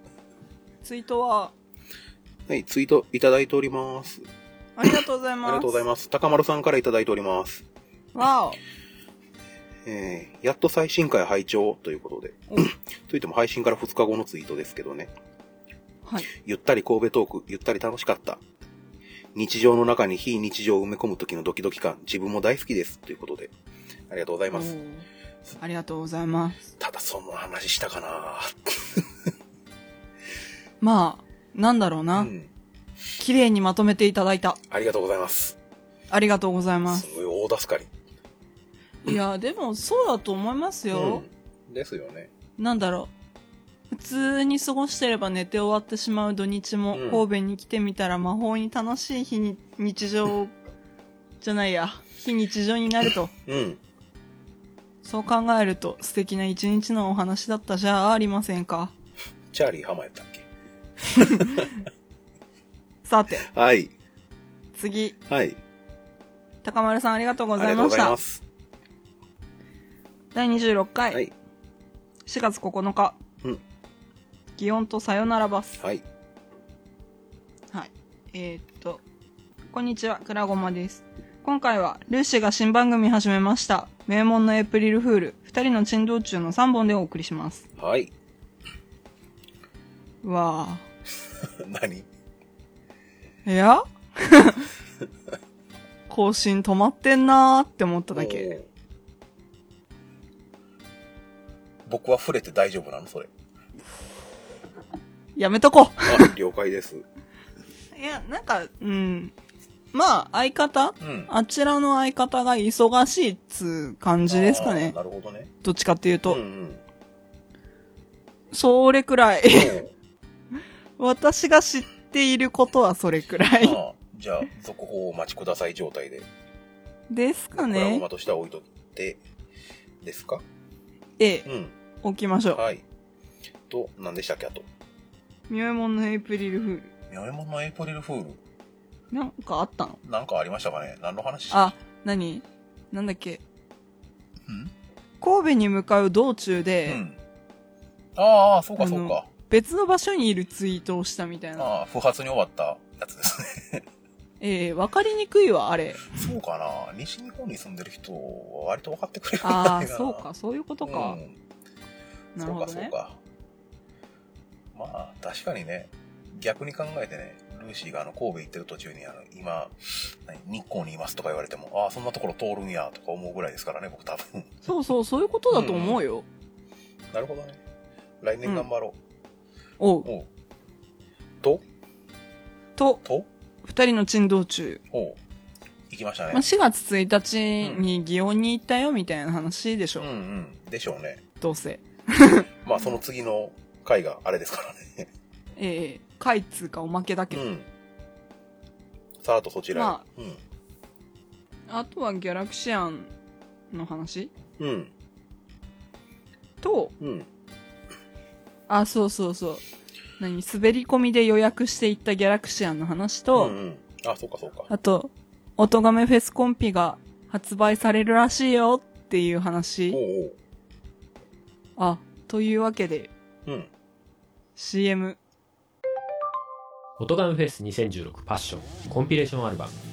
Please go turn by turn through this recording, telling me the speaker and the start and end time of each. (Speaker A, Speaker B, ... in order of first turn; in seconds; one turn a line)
Speaker A: 0.8-1.5
Speaker B: 2.5-4.2
Speaker A: 4.8-5.8
Speaker B: 5.5-7.6
Speaker A: 8.1-8.6
Speaker B: 9.8-15.1
Speaker B: 16.3-18.4
Speaker B: 19.4-23.5
Speaker B: 24.1-24.7
Speaker A: 24.5-25.1
Speaker A: 25.6-26.6
Speaker B: 26.8-29.1
Speaker A: 30.8-32.3
Speaker B: 32.1-32.5
Speaker A: 33.2-34.6
Speaker B: 34.7-35.6
Speaker A: 36.1-37.1
Speaker B: 36.9-37.9
Speaker A: 39.0-41.2
Speaker B: 40.9-42.3
Speaker A: 42.6-43.1
Speaker A: 43.9-50.5
Speaker B: 46.9-47.2
Speaker A: 51.4-53.3
Speaker B: 53.5-53.8
Speaker A: 55.0-58.9
Speaker B: 59.5-60.5
Speaker A: 61.2-61.7
Speaker B: 61.2-61.7
Speaker A: 63.0-63.5
Speaker B: 63.5-63.9
Speaker A: 64.8-65.2
Speaker B: 65.3-65.6
Speaker A: 66.6-68.2
Speaker B: 67.6-68.4
Speaker A: 70.3-71.2
Speaker A: 72.3-73.2
Speaker A: 74.6-75.8
Speaker B: 75.8-76.0
Speaker A: 77.7-79.0
Speaker A: 79.7-87.7
Speaker B: 87.8-88.1
Speaker A: 90.2-90.8
Speaker B: 91.4-92.1
Speaker A: 93.5-94.7
Speaker A: 96.1-98.5
Speaker B: 98.1-98.7
Speaker B: 101.9-103.3
Speaker A: 105.4-106.3
Speaker B: 106.1-107.0
Speaker A: 107.9-109.3
Speaker A: 109.9-115.0
Speaker B: 111.0-111.3
Speaker B: 114.3-115.5
Speaker A: 115.6-116.4
Speaker B: 116.3-116.8
Speaker A: 118.5-119.8
Speaker B: 119.5-119.9
Speaker A: 121.0-123.8
Speaker B: 123.6-126.3
Speaker A: 127.1-128.1
Speaker B: 127.5-129.2
Speaker B: 130.0-130.4
Speaker A: 131.2-131.5
Speaker B: 131.5-131.7
Speaker A: 132.0-132.6
Speaker B: 132.5-132.8
Speaker B: 133.7-134.7
Speaker A: 135.5-136.9
Speaker B: 137.1-138.4
Speaker A: 139.1-140.0
Speaker B: 140.0-141.6
Speaker A: 141.5-143.4
Speaker B: 144.5-144.7
Speaker A: 145.2-147.0
Speaker B: 146.9-147.2
Speaker B: 148.2-149.3
Speaker A: 148.8-151.7
Speaker B: 151.6-153.8
Speaker A: 154.4-156.3
Speaker B: 156.1-160.2
Speaker A: 159.4-161.2
Speaker B: 160.8-161.4
Speaker A: 162.4-162.9
Speaker B: 162.4-163.2
Speaker B: 164.7-174.5
Speaker A: 174.7-176.3
Speaker B: 175.5-176.0
Speaker B: 177.1-177.6
Speaker B: 178.2-179.0
Speaker A: 179.8-180.1
Speaker A: 183.6-184.8
Speaker B: 184.9-185.2
Speaker B: 185.9-186.4
Speaker A: 186.3-190.1
Speaker B: 190.0-191.2
Speaker A: 191.4-192.5
Speaker B: 192.6-195.1
Speaker A: 195.6-197.4
Speaker B: 197.3-197.7
Speaker B: 199.2-200.4
Speaker A: 199.7-200.0
Speaker A: 201.7-203.1
Speaker A: 203.7-204.3
Speaker B: 204.6-204.9
Speaker A: 206.6-206.9
Speaker B: 207.0-207.3
Speaker A: 208.7-209.6
Speaker A: 210.2-213.6
Speaker B: 213.3-214.7
Speaker A: 214.7-220.0
Speaker B: 219.9-220.4
Speaker A: 221.8-223.1
Speaker A: 224.6-225.2
Speaker C: 227.0-229.8